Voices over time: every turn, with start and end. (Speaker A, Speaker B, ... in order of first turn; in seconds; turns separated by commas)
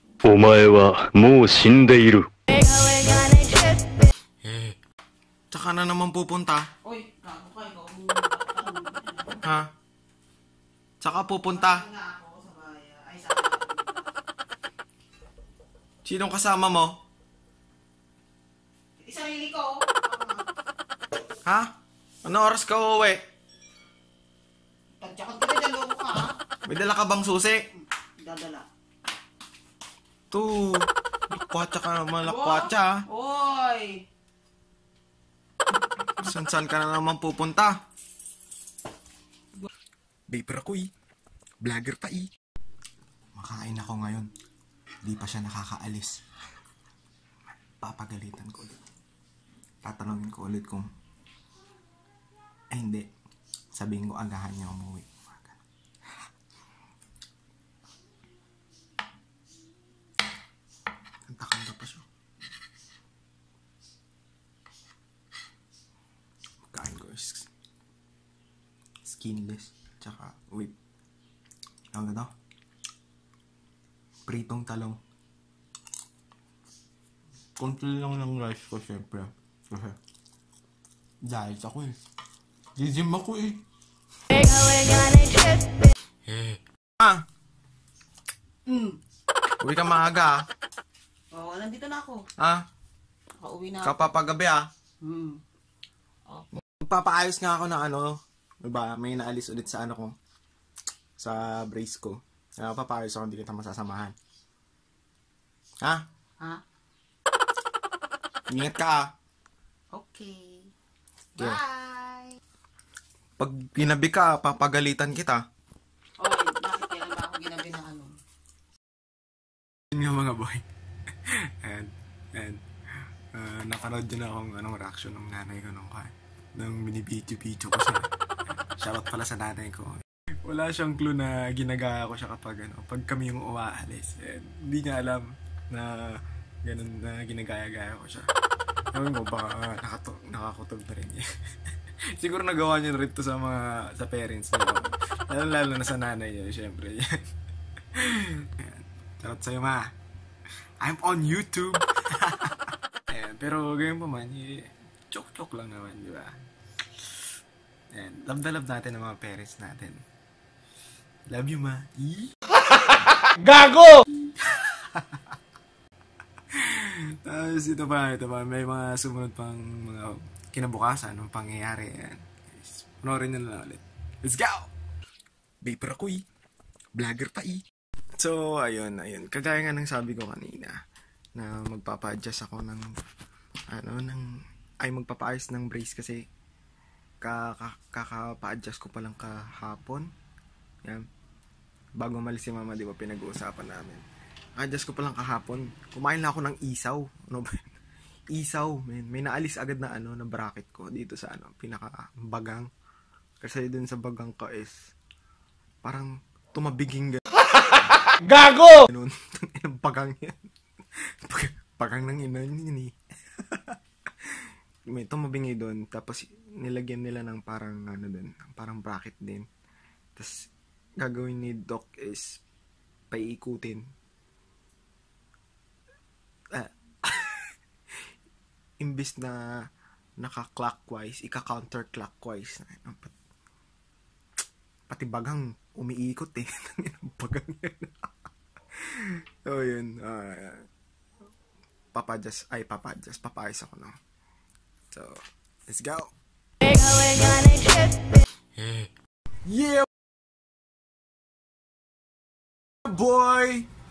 Speaker A: 0.2-2.3, Speaker B: 2.7-4.1, Speaker A: 4.4-4.7, Speaker C: 5.5-6.7, Speaker B: 6.8-9.4, Speaker C: 9.4-9.7, Speaker C: 11.0-11.9, Speaker B: 11.5-14.1, Speaker C: 16.0-16.9, Speaker B: 19.0-20.4, Speaker C: 21.4-21.7, Speaker C: 22.2-23.2, Speaker B: 25.0-26.4, Speaker C: 26.6-27.6, Speaker B: 28.2-28.7, Speaker C: 30.3-33.0, Speaker B: 32.2-34.0, Speaker C: 36.2-37.8, Speaker C: 40.3-40.9, Speaker C: 41.6-42.3, Speaker C: 43.3-44.3, Speaker C: 45.0-46.2, Speaker C: 47.7-48.8, Speaker C: 49.8-50.9, Speaker C: 52.7-53.1, Speaker C: 53.7-55.6, Speaker C: 61.3-62.0, Speaker C: 66.7-67.5, Speaker C: 69.0-70.7, Speaker C: 71.9-72.3, Speaker C: 74.2-75.0, Speaker C: 77.6-80.0, Speaker C: 81.2-81.9, Speaker C: 82.8-83.6, Speaker D: 84.3-85.7, Speaker B: 84.5-85.3, Speaker C: 86.3-87.2, Speaker B: 88.7-89.0, Speaker C: 89.6-90.5, Speaker B: 91.3-92.2, Speaker C: 92.4-92.6, Speaker B: 93.4-94.1, Speaker C: 93.8-94.7, Speaker B: 95.0-95.4, Speaker C: 96.5-100.1, Speaker C: 101.2-104.1, Speaker C: 108.5-109.1, Speaker B: 109.9-110.7, Speaker B: 111.4-112.4, Speaker C: 113.4-115.4, Speaker B: 116.2-118.2, Speaker C: 119.9-120.6, Speaker C: 121.6-122.6, Speaker C: 123.3-128.1, Speaker C: 128.8-138.3, Speaker C: 138.9-141.2, Speaker C: 142.1-147.1, Speaker C: 147.9-149.8, Speaker C: 150.8-152.6, Speaker C: 153.1-156.3, Speaker C: 157.9-160.0, Speaker C: 161.3-162.3, Speaker D: 163.4-164.0, Speaker C: 164.4-165.2, Speaker C: 166.5-174.7, Speaker C: 175.6-176.2, Speaker C: 176.9-177.6, Speaker C: 178.2-180.8, Speaker C: 181.3-182.8, Speaker C: 183.7-184.2, Speaker C: 184.8-186.2, Speaker C: 187.2-190.1, Speaker C: 192.0-194.0, Speaker C: 194.6-197.7, Speaker C: 198.3-202.7, Speaker C: 203.4-204.9, Speaker C: 205.8-207.2, Speaker D: 208.2-208.8, Speaker C: 208.7-210.5, Speaker C: 211.2-212.9, Speaker C: 213.5-213.8, Speaker C: 214.9-219.4, Speaker C: 221.0-222.4, Speaker C: 223.1-223.8, Speaker C: 226.5-227.5, Speaker C: 228.8-229.5, Speaker C: 230.2-233.1, Speaker C: 234.9-238.1, Speaker C: 239.4-240.6, Speaker C: 241.9-243.9, Speaker C: 244.9-246.1, Speaker D: 246.6-248.2, Speaker C: 248.6-248.8, Speaker C: 249.4-249.9, Speaker C: 252.8-253.7